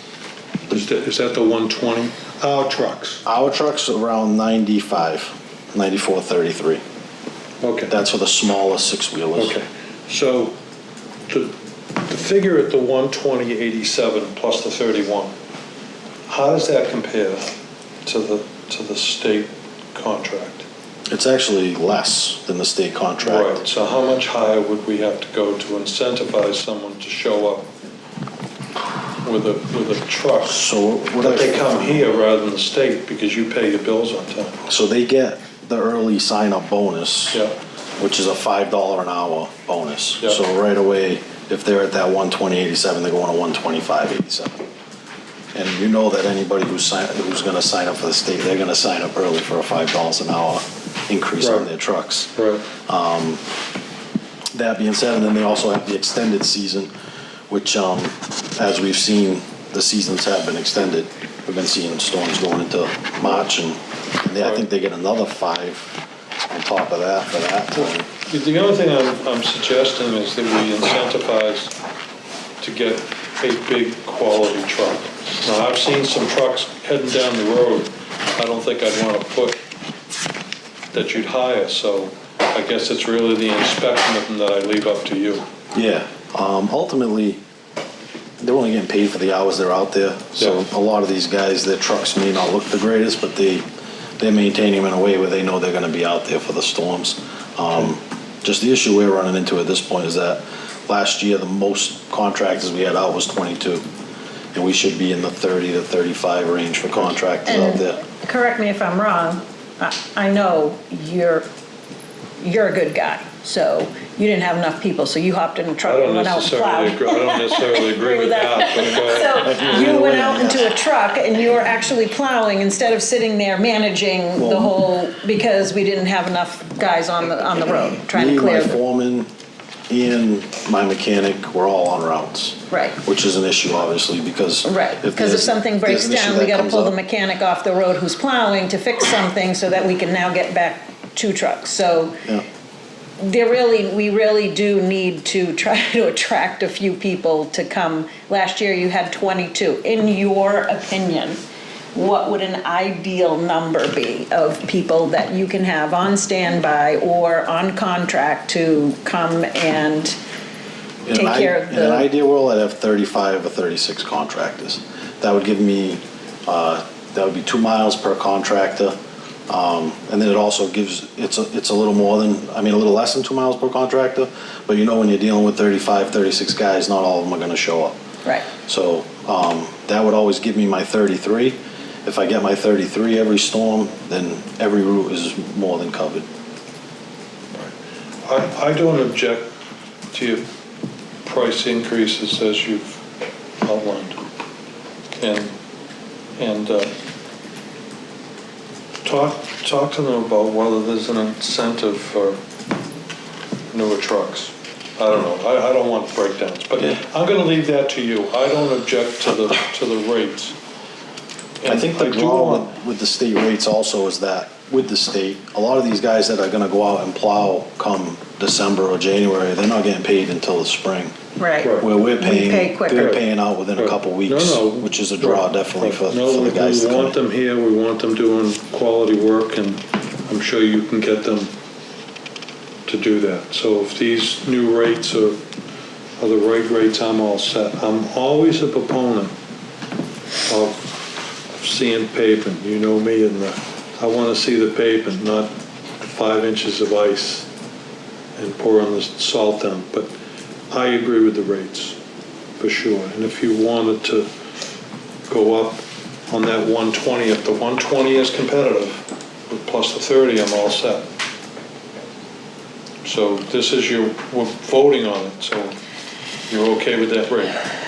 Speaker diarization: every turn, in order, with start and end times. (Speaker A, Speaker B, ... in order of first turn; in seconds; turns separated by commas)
Speaker A: 0.7-3.2, Speaker B: 3.2-6.8, Speaker A: 7.6-7.9, Speaker B: 7.9-9.6, Speaker A: 9.4-10.6, Speaker A: 11.3-15.3, Speaker A: 16.3-17.5, Speaker A: 18.0-20.7, Speaker B: 21.1-23.6, Speaker A: 23.2-27.7, Speaker A: 29.2-30.6, Speaker B: 30.5-32.0, Speaker A: 31.2-34.6, Speaker B: 34.6-37.4, Speaker B: 38.0-44.7, Speaker B: 45.5-52.3, Speaker A: 51.4-51.7, Speaker A: 52.4-52.7, Speaker B: 52.9-53.4, Speaker B: 54.5-56.9, Speaker B: 57.5-65.9, Speaker B: 66.5-68.1, Speaker A: 68.3-71.7, Speaker A: 72.6-79.6, Speaker A: 80.9-85.5, Speaker B: 85.7-87.4, Speaker B: 88.4-93.7, Speaker A: 90.4-90.6, Speaker B: 94.2-103.8, Speaker B: 104.5-108.0, Speaker C: 107.5-111.5, Speaker C: 112.4-128.8, Speaker A: 115.8-119.9, Speaker B: 119.4-120.7, Speaker B: 124.4-124.7, Speaker B: 128.1-129.3, Speaker B: 129.9-137.0, Speaker C: 132.7-133.0, Speaker C: 134.6-142.2, Speaker C: 143.2-151.4, Speaker C: 151.9-160.2, Speaker B: 161.1-168.9, Speaker C: 161.1-162.1, Speaker B: 169.5-177.9, Speaker B: 178.7-186.2, Speaker A: 188.2-189.5, Speaker A: 190.1-190.4, Speaker A: 191.2-193.0, Speaker A: 193.6-194.2, Speaker A: 195.2-195.5, Speaker A: 196.4-196.9, Speaker A: 199.0-202.4, Speaker A: 203.7-210.6, Speaker A: 211.6-212.7, Speaker B: 211.7-221.2, Speaker C: 221.4-223.2, Speaker A: 221.6-221.9, Speaker B: 221.8-227.2, Speaker A: 223.8-231.5, Speaker A: 232.9-235.4, Speaker A: 236.2-239.3, Speaker A: 240.5-241.0, Speaker A: 241.5-247.5, Speaker A: 248.4-250.1, Speaker A: 250.7-252.0, Speaker A: 252.6-254.3, Speaker A: 255.3-261.0, Speaker A: 263.0-265.8, Speaker A: 266.5-267.6